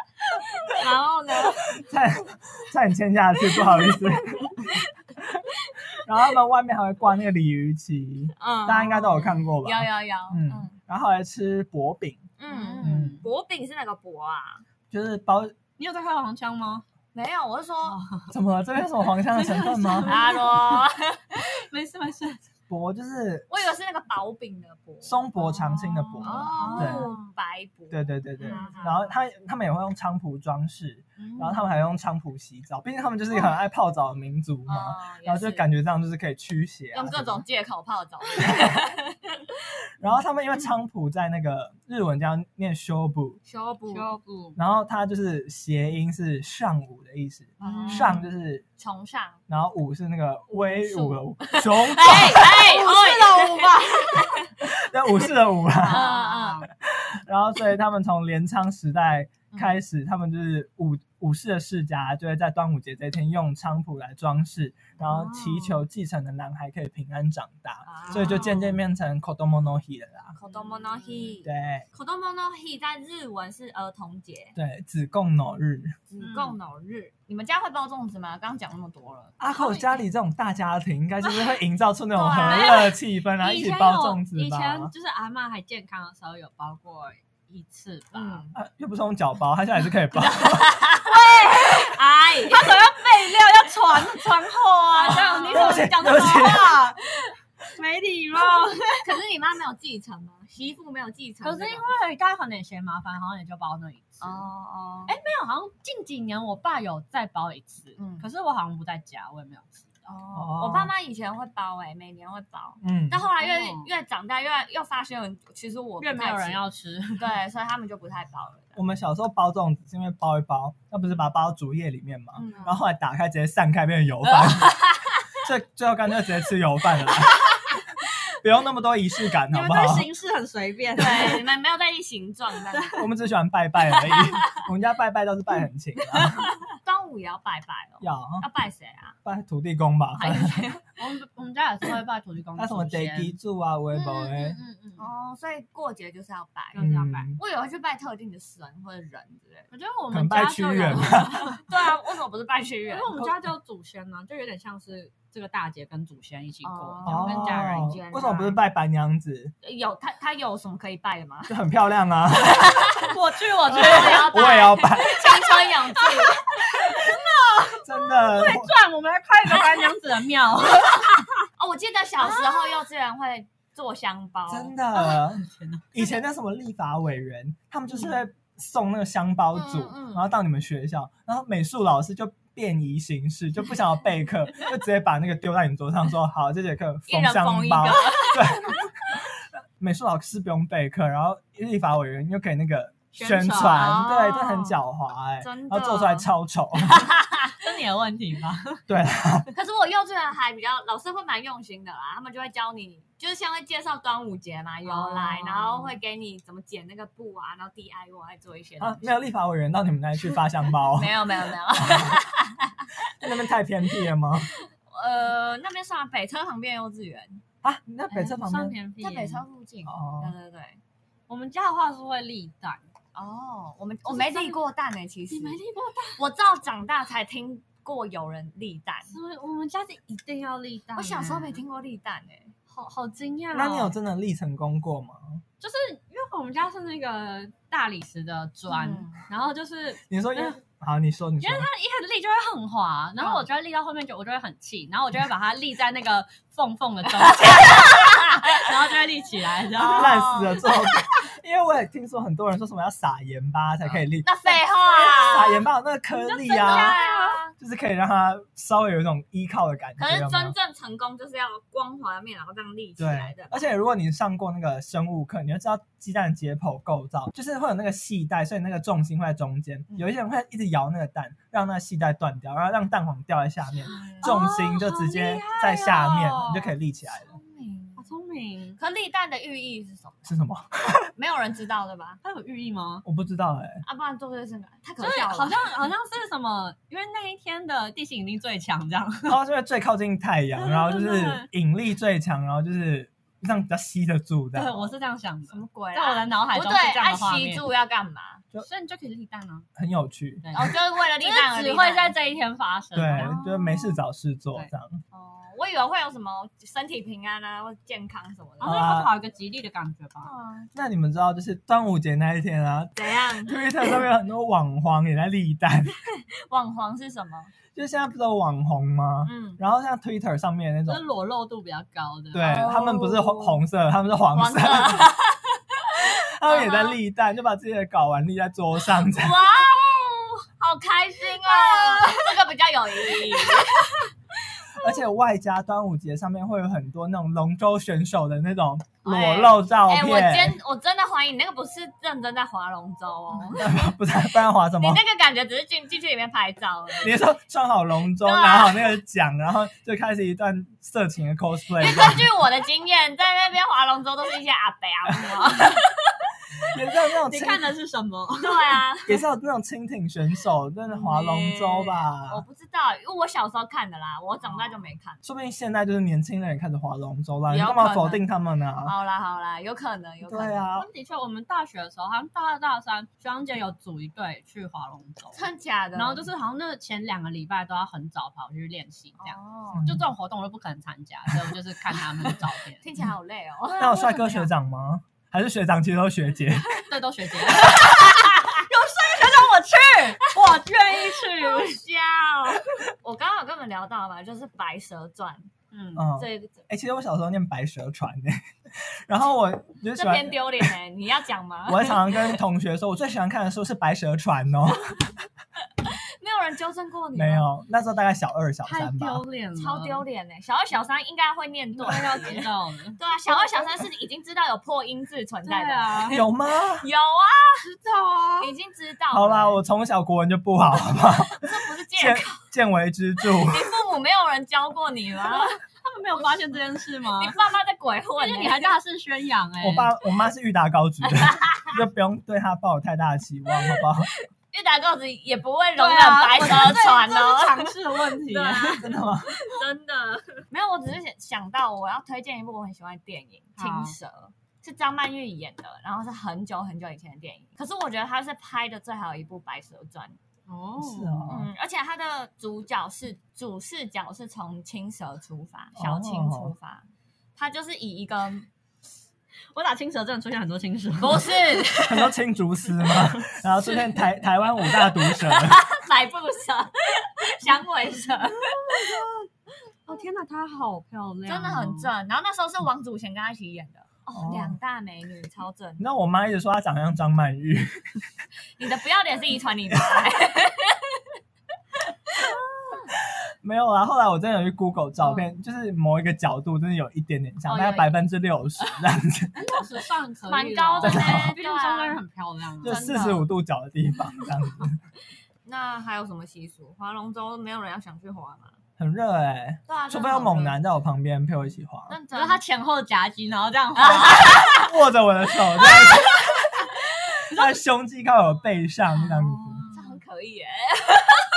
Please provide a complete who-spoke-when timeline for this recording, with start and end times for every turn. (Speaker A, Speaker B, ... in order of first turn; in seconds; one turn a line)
Speaker A: 0.6-1.8
Speaker B: 1.8-12.2
Speaker A: 5.6-5.9
Speaker A: 8.4-10.8
Speaker A: 12.4-14.6
Speaker C: 12.5-13.2
Speaker B: 12.8-13.2
Speaker B: 14.9-15.6
Speaker C: 15.8-16.9
Speaker A: 17.1-18.0
Speaker C: 17.8-18.3
Speaker B: 18.3-20.1
Speaker C: 19.3-22.4
Speaker A: 20.1-21.5
Speaker B: 22.7-23.5
Speaker A: 23.5-25.6
Speaker B: 25.0-27.1
Speaker C: 25.6-27.2
Speaker A: 26.2-29.1
Speaker B: 27.9-37.4
Speaker C: 28.4-28.9
Speaker C: 31.2-31.7
Speaker A: 34.7-35.6
Speaker A: 36.9-39.5
Speaker B: 38.4-38.8
Speaker B: 40.0-43.4
Speaker A: 43.5-44.1
Speaker C: 43.9-44.6
Speaker B: 44.6-48.6
Speaker A: 47.6-48.2
Speaker C: 47.6-48.2
Speaker A: 48.8-49.4
Speaker B: 49.5-52.6
Speaker A: 50.5-54.6
Speaker C: 52.0-54.4
Speaker B: 54.6-56.1
Speaker C: 55.7-56.7
Speaker A: 55.8-56.7
Speaker B: 56.8-70.4
Speaker A: 59.5-59.8
Speaker C: 65.1-65.8
Speaker A: 67.8-68.8
Speaker A: 70.3-74.6
Speaker C: 70.5-71.4
Speaker B: 71.4-71.9
Speaker B: 74.6-76.0
Speaker A: 76.1-79.4
Speaker C: 76.2-76.6
Speaker B: 79.4-84.9
Speaker A: 82.1-82.9
Speaker C: 82.4-88.5
Speaker A: 88.1-88.6
Speaker B: 88.5-90.8
Speaker A: 90.2-92.8
Speaker C: 91.0-97.1
Speaker A: 94.9-96.0
Speaker B: 95.1-96.8
Speaker C: 97.7-99.1
Speaker A: 98.4-101.9
Speaker C: 101.4-104.4
Speaker A: 104.2-105.2
Speaker C: 105.1-109.9
Speaker A: 108.0-108.3
Speaker A: 110.1-116.6
Speaker B: 110.3-110.9
Speaker B: 112.8-113.3
Speaker C: 113.4-113.9
Speaker C: 116.0-117.3
Speaker A: 117.2-118.8
Speaker B: 118.8-124.8
Speaker A: 122.3-122.8
Speaker A: 124.4-125.1
Speaker B: 125.3-127.8
Speaker B: 128.3-130.1
Speaker C: 129.5-131.4
Speaker A: 131.0-132.9
Speaker C: 132.7-133.1
Speaker B: 132.9-136.5
Speaker A: 133.9-134.7
Speaker A: 136.4-139.2
Speaker B: 138.0-138.4
Speaker B: 139.2-140.7
Speaker A: 140.2-140.9
Speaker C: 141.0-143.3
Speaker B: 142.6-144.6
Speaker C: 143.9-145.1
Speaker A: 145.0-146.8
Speaker C: 146.7-147.3
Speaker B: 146.8-147.4
Speaker A: 147.4-149.7
Speaker C: 149.7-151.6
Speaker B: 150.1-151.6
Speaker A: 151.6-153.1
Speaker C: 152.9-158.0
Speaker A: 156.6-158.6
Speaker B: 157.1-159.5
Speaker A: 159.6-161.6
Speaker B: 161.5-162.9
Speaker A: 162.5-163.1
Speaker C: 163.0-171.3
Speaker B: 163.7-165.2
Speaker A: 163.7-167.1
Speaker B: 167.7-168.7
Speaker A: 171.6-174.8
Speaker C: 172.2-172.8
Speaker B: 174.5-197.1
Speaker C: 175.0-175.8
Speaker A: 179.5-180.3
Speaker A: 187.1-188.9
Speaker C: 193.1-194.0
Speaker A: 193.7-194.8
Speaker A: 195.4-196.3
Speaker A: 196.8-197.6
Speaker C: 197.5-198.8
Speaker B: 198.9-199.5
Speaker A: 199.5-209.2
Speaker C: 204.8-206.0
Speaker B: 208.8-212.2
Speaker A: 210.9-212.9
Speaker B: 213.2-214.5
Speaker A: 214.9-217.4
Speaker B: 217.6-218.8
Speaker C: 218.1-219.4
Speaker A: 219.0-220.8
Speaker B: 219.9-220.3
Speaker C: 221.3-222.8
Speaker A: 223.2-225.6
Speaker C: 224.1-224.6
Speaker C: 225.3-226.2
Speaker A: 226.2-229.1
Speaker C: 229.1-231.6
Speaker A: 230.9-232.5
Speaker C: 232.7-233.9
Speaker B: 233.5-235.4
Speaker C: 235.6-240.6
Speaker A: 238.7-239.2
Speaker B: 240.1-241.7
Speaker C: 241.4-250.3
Speaker A: 243.2-243.5
Speaker A: 247.3-248.7
Speaker A: 249.8-250.7
Speaker B: 249.9-257.0
Speaker A: 254.2-255.7
Speaker C: 256.1-257.4
Speaker A: 256.5-257.5
Speaker B: 257.6-260.5
Speaker A: 260.0-263.7
Speaker B: 263.0-277.3
Speaker A: 273.9-274.3
Speaker C: 274.2-276.7
Speaker A: 277.1-278.1
Speaker C: 278.0-278.8
Speaker A: 278.8-280.3
Speaker B: 280.3-281.1
Speaker A: 281.1-282.2
Speaker C: 282.2-283.1
Speaker B: 283.1-283.8
Speaker A: 283.8-285.7
Speaker C: 285.0-289.4
Speaker B: 289.3-294.9
Speaker C: 290.6-291.5
Speaker C: 294.5-297.6
Speaker A: 295.5-298.4
Speaker C: 298.6-299.7
Speaker B: 299.8-300.4
Speaker C: 300.4-303.3
Speaker A: 300.5-302.1
Speaker B: 302.9-305.0
Speaker A: 303.2-304.0
Speaker A: 305.1-308.9
Speaker C: 308.6-310.3
Speaker B: 308.6-309.1
Speaker A: 310.2-310.7
Speaker B: 310.7-316.0
Speaker A: 313.0-313.9
Speaker A: 316.5-317.5
Speaker B: 317.8-321.1
Speaker A: 319.2-319.6
Speaker C: 320.9-322.6
Speaker B: 322.3-325.1
Speaker A: 322.4-323.6
Speaker A: 324.3-327.0
Speaker B: 326.4-329.4
Speaker A: 329.1-334.1
Speaker C: 331.4-332.4
Speaker C: 333.3-333.6
Speaker B: 334.7-340.6
Speaker A: 339.0-343.9
Speaker B: 343.6-345.0
Speaker A: 344.8-347.3
Speaker B: 347.0-352.3
Speaker A: 348.2-349.0
Speaker A: 351.8-356.3
Speaker B: 356.7-357.7
Speaker C: 357.3-358.9
Speaker A: 358.4-359.2
Speaker B: 359.1-362.4
Speaker A: 360.9-365.2
Speaker B: 365.2-368.9
Speaker A: 367.5-368.2
Speaker A: 368.9-370.7
Speaker B: 370.2-370.9
Speaker C: 370.8-375.4
Speaker A: 375.3-376.3
Speaker C: 375.9-382.8
Speaker A: 379.2-379.9
Speaker B: 379.7-380.0
Speaker A: 382.8-384.2
Speaker C: 383.8-384.5
Speaker B: 383.8-386.9
Speaker C: 386.7-391.8
Speaker A: 391.2-395.5
Speaker C: 395.7-396.1
Speaker B: 395.9-400.7
Speaker A: 396.2-396.6
Speaker A: 399.9-402.2
Speaker B: 401.7-405.2
Speaker A: 405.8-407.5
Speaker B: 407.1-409.2
Speaker C: 408.6-410.0
Speaker A: 409.6-416.2
Speaker C: 411.8-413.4
Speaker C: 415.4-416.2
Speaker B: 416.1-416.9
Speaker A: 416.8-417.6
Speaker C: 417.6-418.5
Speaker A: 418.4-419.6
Speaker B: 419.1-423.7
Speaker A: 421.3-422.5
Speaker A: 423.4-425.6
Speaker C: 425.4-427.4
Speaker A: 427.2-428.7
Speaker C: 428.2-429.9
Speaker B: 429.6-434.1
Speaker A: 431.1-431.8
Speaker A: 434.5-450.2
Speaker C: 435.8-438.9
Speaker B: 438.8-439.3
Speaker C: 443.6-444.0
Speaker C: 450.5-451.3
Speaker B: 450.8-451.5
Speaker A: 451.3-458.5
Speaker B: 455.8-456.5
Speaker C: 459.5-461.8
Speaker A: 461.0-462.1
Speaker B: 461.9-465.6
Speaker C: 462.8-463.4
Speaker A: 465.0-469.0
Speaker C: 468.4-469.3
Speaker C: 469.9-471.9
Speaker A: 471.3-475.8
Speaker B: 474.1-474.6
Speaker B: 475.8-478.0
Speaker A: 478.6-481.1
Speaker A: 482.2-482.9
Speaker B: 483.4-489.4
Speaker C: 487.5-487.8
Speaker A: 487.5-487.8
Speaker C: 489.4-492.8
Speaker A: 490.3-492.0
Speaker B: 490.8-491.4
Speaker B: 492.6-494.8
Speaker A: 492.6-493.3
Speaker A: 495.4-498.5
Speaker B: 498.8-502.0
Speaker A: 499.7-500.6
Speaker A: 501.9-502.4
Speaker C: 502.1-504.4
Speaker A: 503.8-504.7
Speaker B: 504.3-506.4
Speaker A: 505.6-506.8
Speaker C: 507.3-507.6
Speaker B: 507.3-509.6
Speaker C: 508.9-510.0
Speaker A: 509.7-511.3